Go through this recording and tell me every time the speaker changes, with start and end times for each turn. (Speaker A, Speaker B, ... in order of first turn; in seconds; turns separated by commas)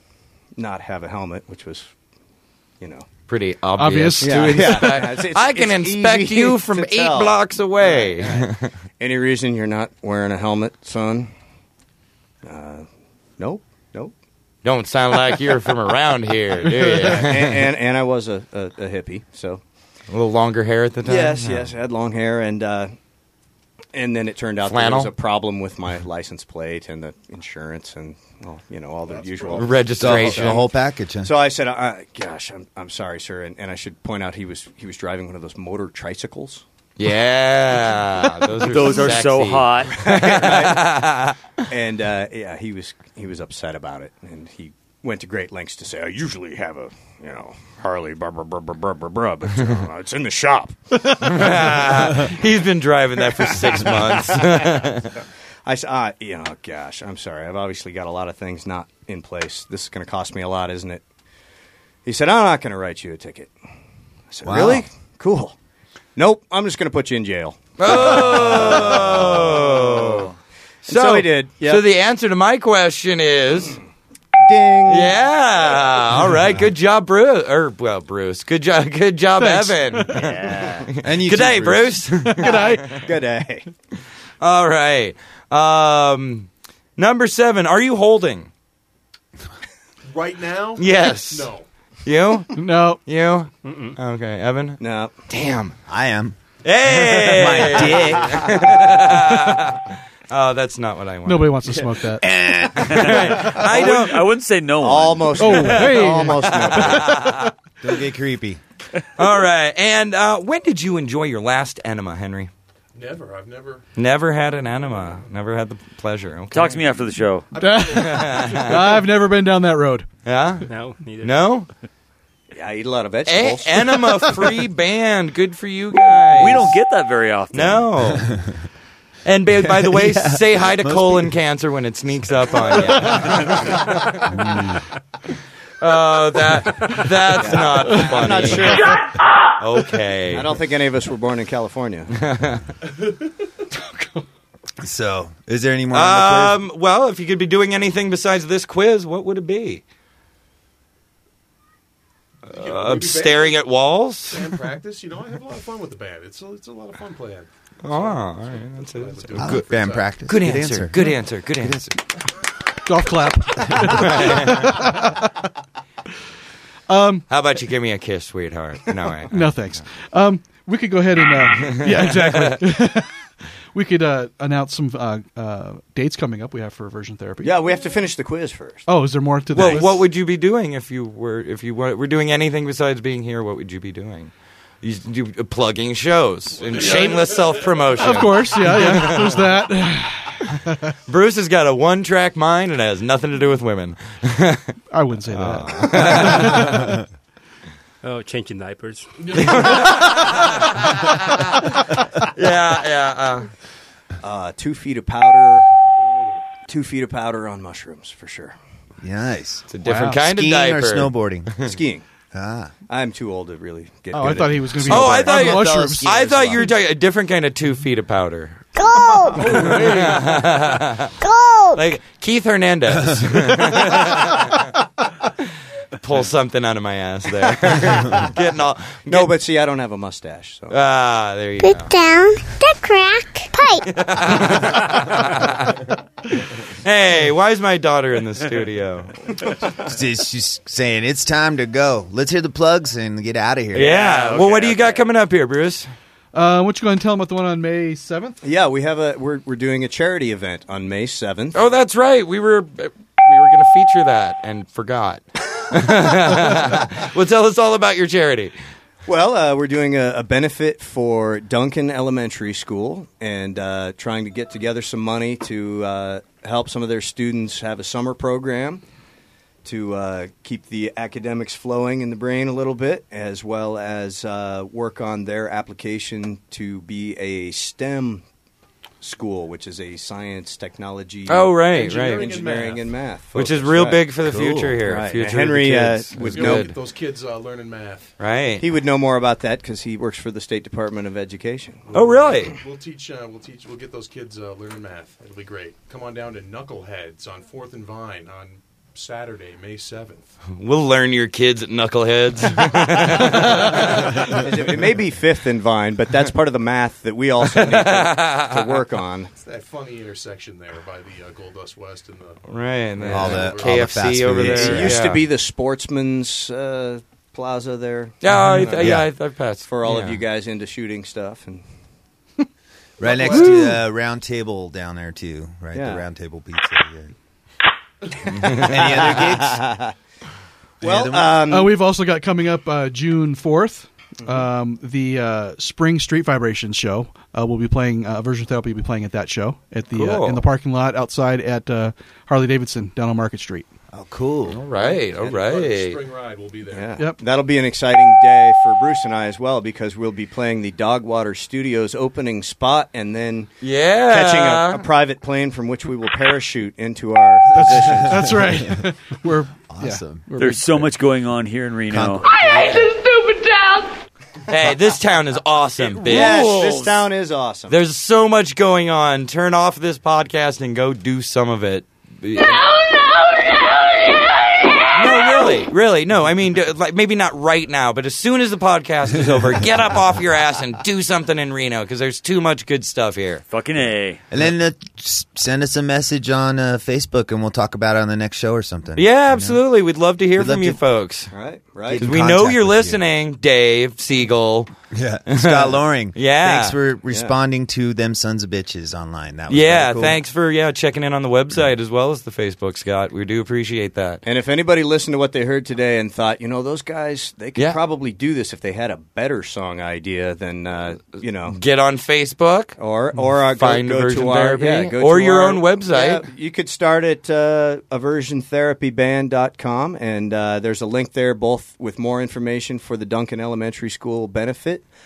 Speaker A: 0.6-1.9, Speaker A: 2.8-3.1, Speaker B: 3.3-8.7, Speaker C: 3.8-5.0, Speaker A: 4.2-11.3, Speaker A: 12.4-12.9, Speaker A: 13.4-14.1, Speaker B: 14.6-17.5, Speaker A: 16.8-19.6, Speaker B: 20.1-21.7, Speaker A: 21.0-22.9, Speaker A: 23.9-30.7, Speaker B: 24.6-25.1, Speaker D: 29.0-30.1, Speaker B: 29.5-30.7, Speaker E: 30.0-31.3, Speaker A: 31.2-36.6, Speaker B: 37.0-41.4, Speaker F: 38.5-40.0, Speaker A: 40.0-40.9, Speaker A: 41.7-52.3, Speaker B: 51.2-55.1, Speaker A: 53.3-54.9, Speaker A: 55.6-61.0, Speaker A: 62.0-63.5, Speaker A: 64.3-65.5, Speaker E: 64.4-64.8, Speaker A: 66.2-70.2, Speaker B: 67.8-70.3, Speaker A: 70.8-71.8, Speaker B: 70.8-73.8, Speaker A: 74.4-76.0, Speaker B: 74.9-83.0, Speaker C: 79.4-80.2, Speaker F: 80.1-80.9, Speaker E: 81.0-82.0, Speaker C: 82.2-83.0, Speaker A: 82.9-83.7, Speaker B: 84.4-88.5, Speaker D: 90.1-91.6, Speaker B: 90.8-91.5, Speaker B: 92.0-95.7, Speaker C: 92.5-93.0, Speaker G: 93.6-94.0, Speaker A: 94.8-95.1, Speaker E: 95.9-98.8, Speaker B: 96.6-101.6, Speaker C: 101.2-102.3, Speaker E: 102.2-103.3, Speaker B: 102.7-104.3, Speaker F: 103.0-105.8, Speaker A: 104.8-107.2, Speaker C: 105.4-107.5, Speaker B: 106.4-107.5, Speaker E: 107.8-108.6, Speaker B: 109.2-112.5, Speaker D: 112.9-113.8, Speaker B: 114.0-116.8, Speaker F: 116.5-117.5, Speaker D: 117.5-119.0, Speaker C: 117.5-120.1, Speaker B: 117.8-119.0, Speaker B: 120.2-121.7, Speaker G: 120.7-121.5, Speaker A: 122.5-124.1, Speaker B: 123.2-126.8, Speaker F: 126.3-128.2, Speaker B: 127.5-128.3, Speaker B: 129.2-134.3, Speaker E: 129.6-131.3, Speaker E: 134.3-134.6, Speaker B: 135.8-139.0, Speaker A: 137.3-139.2, Speaker B: 139.6-140.6, Speaker A: 140.3-142.1, Speaker B: 142.2-142.7, Speaker C: 143.8-144.2, Speaker E: 144.8-146.6, Speaker B: 145.9-149.8, Speaker B: 152.5-154.5, Speaker D: 152.5-153.6, Speaker D: 154.3-160.2, Speaker B: 157.8-161.9, Speaker E: 159.3-161.9, Speaker C: 162.8-165.3, Speaker B: 163.9-164.7, Speaker C: 166.9-167.2, Speaker B: 167.3-169.4, Speaker C: 169.3-173.1, Speaker B: 171.6-172.6, Speaker C: 173.7-177.5, Speaker A: 177.4-178.9, Speaker C: 178.9-180.1, Speaker B: 179.5-189.4, Speaker D: 186.7-188.1, Speaker C: 187.9-190.9, Speaker B: 191.1-194.8, Speaker C: 194.9-197.0, Speaker B: 195.3-196.8, Speaker G: 198.0-199.8, Speaker B: 199.3-203.5, Speaker D: 199.8-200.1, Speaker A: 204.2-205.7, Speaker A: 206.7-208.6, Speaker E: 209.0-211.6, Speaker B: 209.7-211.7, Speaker C: 209.8-210.2, Speaker A: 211.6-212.0, Speaker E: 212.3-212.7, Speaker A: 212.9-215.3, Speaker C: 214.1-216.7, Speaker B: 214.9-218.6, Speaker E: 215.4-216.6, Speaker H: 218.7-219.6, Speaker C: 219.4-220.3, Speaker B: 219.4-221.1, Speaker H: 221.2-221.8, Speaker B: 221.7-224.8, Speaker B: 226.0-229.3, Speaker A: 229.1-230.8, Speaker B: 230.7-231.9, Speaker H: 231.6-233.9, Speaker B: 233.9-235.8, Speaker B: 236.5-239.5, Speaker E: 239.7-244.1, Speaker B: 243.7-245.9, Speaker F: 243.8-245.1, Speaker C: 246.3-248.4, Speaker A: 248.4-251.6, Speaker B: 251.5-258.5, Speaker A: 259.1-268.8, Speaker A: 269.6-278.2, Speaker A: 279.0-284.0, Speaker B: 281.3-282.3, Speaker D: 281.6-283.0, Speaker B: 283.3-286.7, Speaker E: 284.2-284.8, Speaker A: 284.8-286.7, Speaker D: 286.2-288.1, Speaker B: 288.2-288.6, Speaker A: 288.6-291.9, Speaker D: 291.9-300.3, Speaker B: 291.9-292.5, Speaker B: 300.5-304.2, Speaker A: 303.2-309.3, Speaker B: 307.6-308.8, Speaker D: 309.4-314.1, Speaker B: 312.4-315.2, Speaker E: 313.1-315.0, Speaker A: 314.4-319.0, Speaker B: 318.2-320.2, Speaker E: 318.7-319.1, Speaker A: 319.7-321.6, Speaker E: 323.0-327.1, Speaker D: 323.0-323.6, Speaker A: 325.7-326.0, Speaker E: 328.2-329.7, Speaker A: 328.4-329.9, Speaker E: 330.8-331.4, Speaker A: 330.8-331.8, Speaker C: 331.4-343.7, Speaker A: 334.2-334.5, Speaker B: 339.9-340.4, Speaker E: 343.9-344.6, Speaker B: 344.5-346.0, Speaker D: 344.7-347.0, Speaker A: 346.7-358.5, Speaker B: 353.6-354.8, Speaker C: 357.5-360.9, Speaker E: 358.0-358.9, Speaker E: 359.7-360.3, Speaker F: 360.4-362.2, Speaker E: 361.9-362.9, Speaker I: 362.2-364.0, Speaker B: 364.5-367.1, Speaker A: 366.0-367.8, Speaker B: 367.7-372.6, Speaker I: 372.3-375.6, Speaker B: 374.9-383.4, Speaker F: 383.5-384.2, Speaker E: 384.3-389.6, Speaker B: 388.9-391.3, Speaker E: 390.4-390.8, Speaker A: 391.3-392.0, Speaker E: 391.9-393.0, Speaker B: 391.9-394.7, Speaker E: 394.9-400.2, Speaker B: 395.3-396.8, Speaker A: 397.1-397.3, Speaker B: 399.5-404.2, Speaker A: 404.2-411.6, Speaker B: 411.5-412.8, Speaker A: 412.8-424.9, Speaker B: 413.5-416.2